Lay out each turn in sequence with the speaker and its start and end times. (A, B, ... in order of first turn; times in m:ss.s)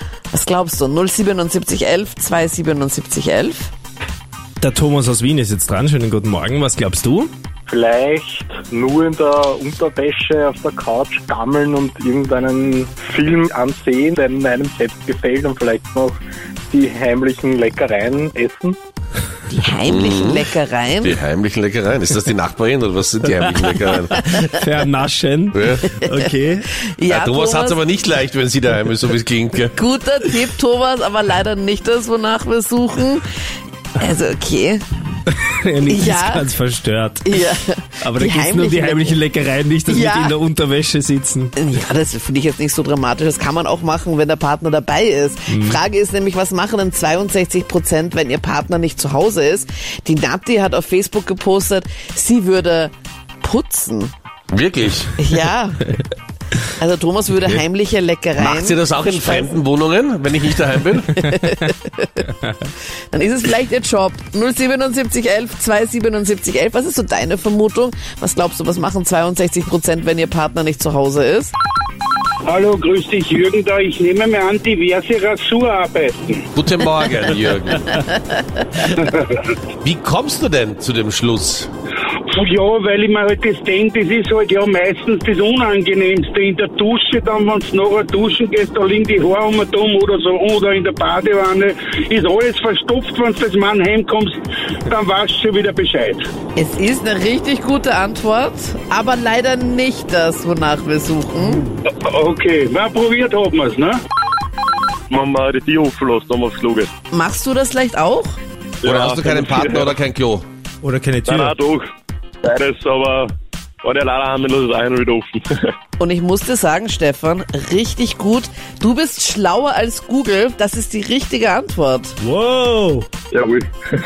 0:00.3-0:03.7 A
0:04.6-0:07.3 B
0:07.7-0:16.2 C
0:16.7-0:18.8 C
0:19.5-0:21.2 A
0:19.9-0:20.5 D
0:21.0-0:24.2 D
0:24.2-0:26.7 B
0:25.5-0:25.8 D
0:26.8-0:27.8 A
0:27.1-0:29.7 D
0:29.8-0:33.2 A
0:34.0-0:34.8 A
0:35.3-0:37.4 B
0:35.9-0:36.5 A
0:37.2-0:39.2 A
0:38.0-0:41.5 B
0:39.9-0:40.4 A
0:41.6-0:54.1 A
0:45.5-0:45.8 B
0:54.5-0:55.2 D
0:55.2-0:55.9 A
0:56.8-0:59.5 A
0:58.4-1:01.2 D
1:01.2-1:02.2 A
1:03.1-1:11.5 A
1:12.5-1:16.4 E
1:16.6-1:18.0 D
1:18.8-1:19.4 E
1:19.8-1:21.7 D
1:22.3-1:36.2 E
1:36.6-1:41.7 A
1:41.9-1:44.0 E
1:45.1-1:46.9 F
1:47.1-1:48.4 A
1:48.8-1:50.4 D
1:48.9-1:49.9 F
1:50.8-1:51.6 B
1:51.3-1:51.8 F
1:52.4-1:53.3 F
1:53.8-1:55.4 F
1:56.0-2:02.2 A
2:02.2-2:03.1 B
2:03.3-2:03.6 F